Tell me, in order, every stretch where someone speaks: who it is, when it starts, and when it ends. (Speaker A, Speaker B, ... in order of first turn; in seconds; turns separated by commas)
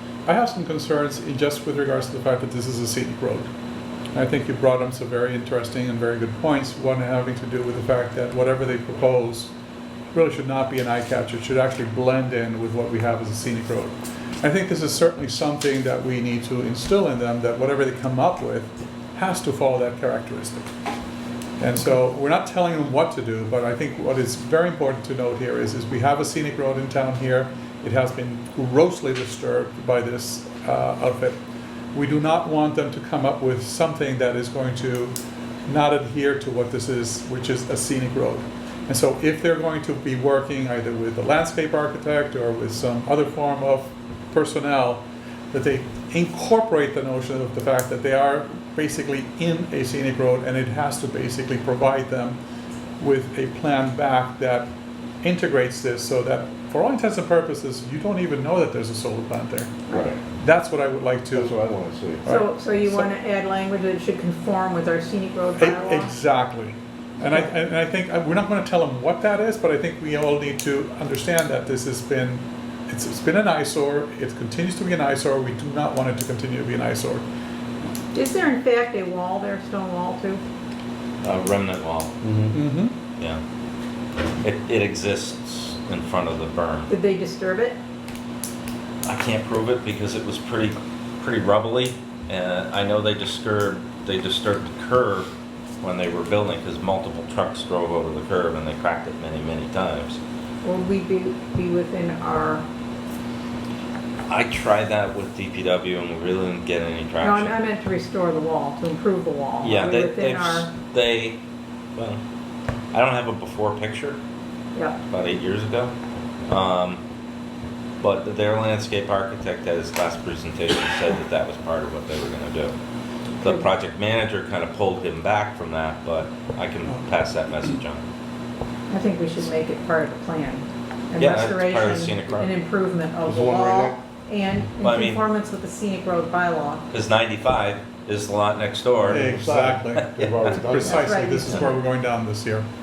Speaker A: 0.3-3.5, Speaker A: 4.1-9.5, Speaker A: 10.1-20.7, Speaker A: 21.6-31.4, Speaker A: 31.9-35.2, Speaker A: 35.7-52.4, Speaker A: 53.0-59.8, Speaker B: 59.9-60.1, Speaker C: 59.9-60.2, Speaker A: 60.4-61.5, Speaker C: 61.3-62.2, Speaker A: 62.2-63.1, Speaker B: 62.3-66.1, Speaker A: 65.6-77.3, Speaker B: 78.1-80.4, Speaker D: 81.2-82.2, Speaker C: 82.2-82.6, Speaker A: 82.5-83.0, Speaker D: 84.4-86.9, Speaker B: 86.9-87.8, Speaker D: 89.0-95.3, Speaker D: 95.8-100.2, Speaker B: 100.6-102.7, Speaker D: 104.3-107.5, Speaker B: 107.2-110.7, Speaker D: 109.6-111.4, Speaker D: 112.0-112.2, Speaker D: 112.9-114.2, Speaker D: 115.1-115.9, Speaker D: 116.5-117.0, Speaker D: 118.0-122.8, Speaker D: 123.4-128.0, Speaker B: 128.9-136.9, Speaker D: 131.2-132.5, Speaker C: 133.2-134.0, Speaker D: 134.8-135.2, Speaker D: 136.9-139.4, Speaker A: 139.1-142.7, Speaker C: 139.1-141.4, Speaker B: 140.8-141.8